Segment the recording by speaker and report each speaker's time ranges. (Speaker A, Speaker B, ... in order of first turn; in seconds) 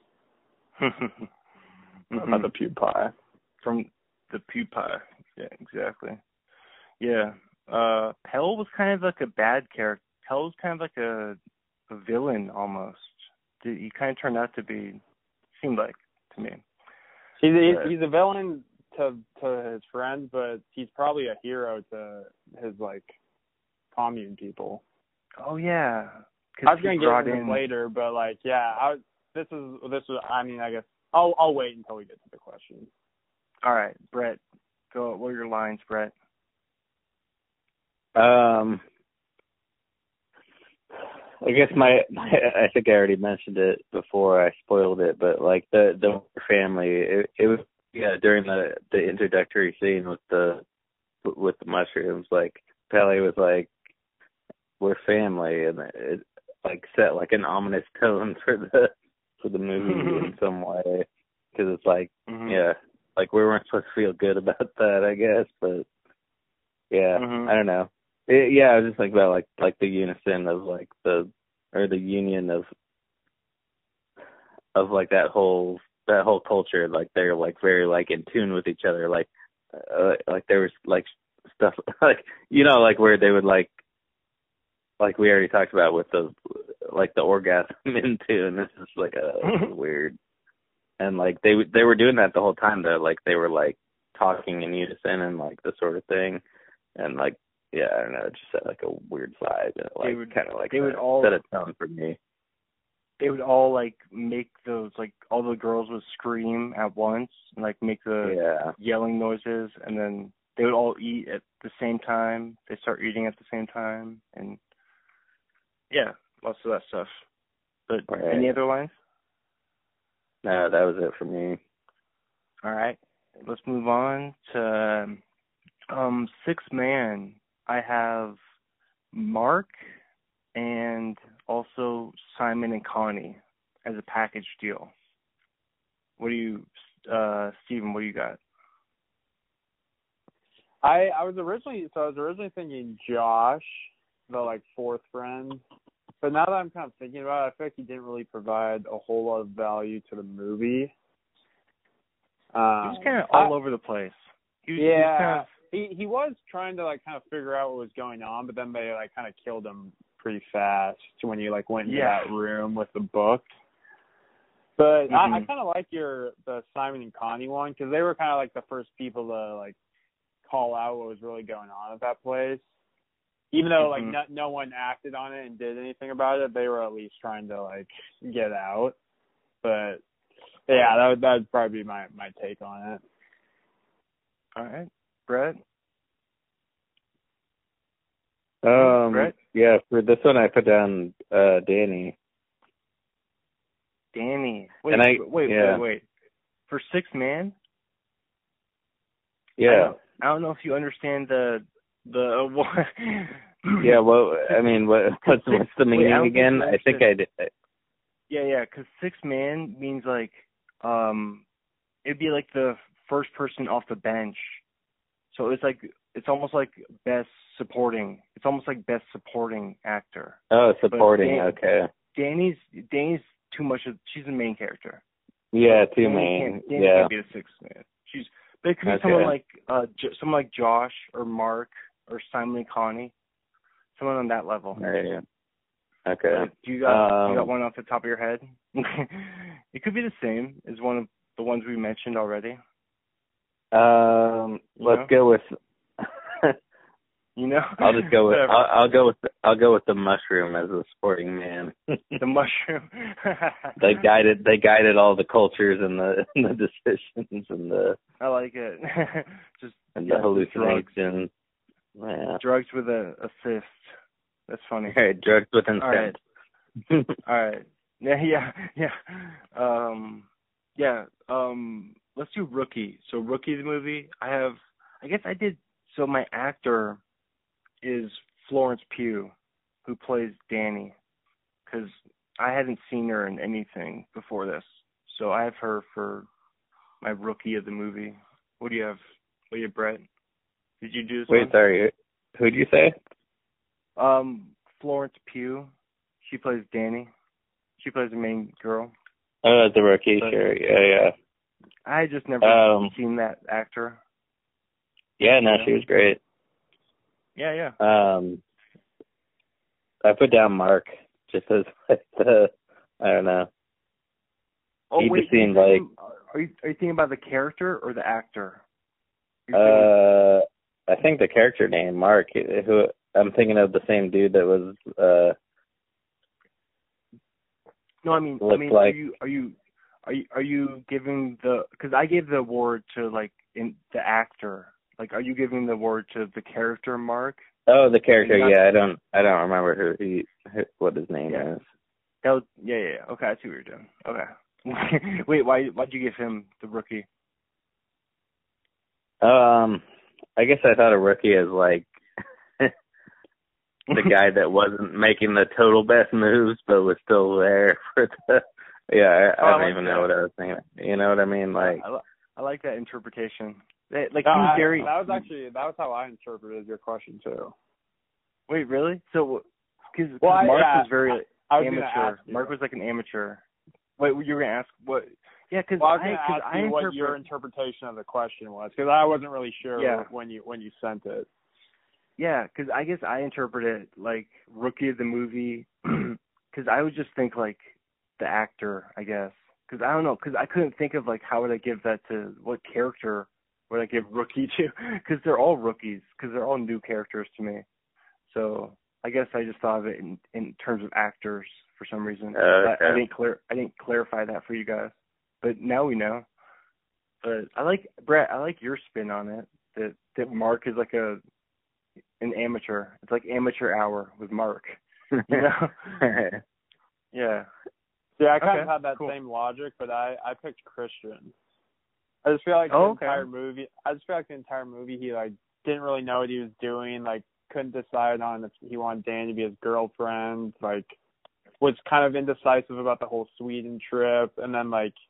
Speaker A: 0.8-1.3, 2.1-2.5, 3.6-6.2, 7.0-11.4, 11.9-15.0, 15.6-16.6, 25.4-27.6, 33.6-34.4, 34.9-36.1, 59.8-60.3, 62.3-62.6, 67.1-67.5, 89.4-89.7, 100.0-101.4, 103.2-114.6, 115.9-117.2, 117.9-118.9, 122.6-125.2, 125.9-128.4, 129.1-129.9, 130.5-134.9, 136.2-138.4, 152.8-155.5, 161.8-162.3, 165.1-165.5, 173.8-174.2, 184.6-185.6, 188.7-189.3, 194.1-196.0, 196.7-197.5, 199.7-203.9, 205.2-207.1, 208.3-211.4, 212.0-214.6, 215.3-220.4, 220.9-221.5, 222.1-225.0, 225.7-233.1, 233.9-234.8, 236.3-242.6, 244.8-245.1, 247.3-248.6, 252.2-253.8, 258.2-260.9, 262.4-263.9, 264.5-265.0, 265.8-266.1, 267.2-277.0, 277.8-279.3, 279.9-280.9, 281.7-286.3, 287.0-289.0, 289.5-290.0, 290.8-291.5, 294.0-295.7, 296.2-297.1, 297.8-298.9, 300.2-300.4, 301.8-304.0, 307.4-307.8, 314.9-318.6, 319.5-319.9, 328.0-337.4, 338.2-338.6, 341.3-341.6, 342.2-347.1, 359.4-360.1, 361.6-365.2, 368.5-373.4, 374.0-377.2, 379.8-380.1, 382.2-397.6, 398.3-406.2, 407.2-411.2, 412.2-416.1, 417.1-417.5, 418.4-419.1, 422.7-423.2
Speaker B: 2.1-3.1, 17.4-23.1, 23.9-24.8, 26.6-32.9, 140.8-145.6, 146.2-150.9, 152.5-153.5, 154.8-163.5, 164.8-169.8, 170.4-172.6, 173.5-178.9, 179.6-180.0, 180.7-183.0, 364.2-367.5, 370.2-372.5, 375.8-381.3, 418.2-421.3, 422.2-430.9, 431.6-434.9
Speaker C: 38.1-38.8, 41.4-50.6, 51.2-53.7, 54.8-65.8, 66.9-72.7, 74.7-83.7, 85.0-90.2, 91.0-96.4, 97.0-102.2, 108.2-108.7, 118.1-118.5, 120.4-121.6, 188.6-192.1, 194.9-195.8, 199.6-200.0, 203.8-207.5, 220.5-221.9, 225.5-227.1, 228.8-229.3, 234.8-235.2, 236.1-237.5, 243.7-245.4, 246.0-246.6, 247.8-252.2, 253.8-258.0, 259.9-261.3, 262.0-262.4, 264.9-266.1, 266.9-267.1, 291.3-292.9, 299.4-301.1, 302.4-302.9, 305.2-306.2, 307.8-308.4, 310.0-313.5, 315.0-315.8, 319.5-325.3, 328.4-328.9, 337.7-341.6, 349.2-349.8, 350.4-351.9, 353.9-361.8, 402.3-403.0, 415.1-415.4, 416.0-416.4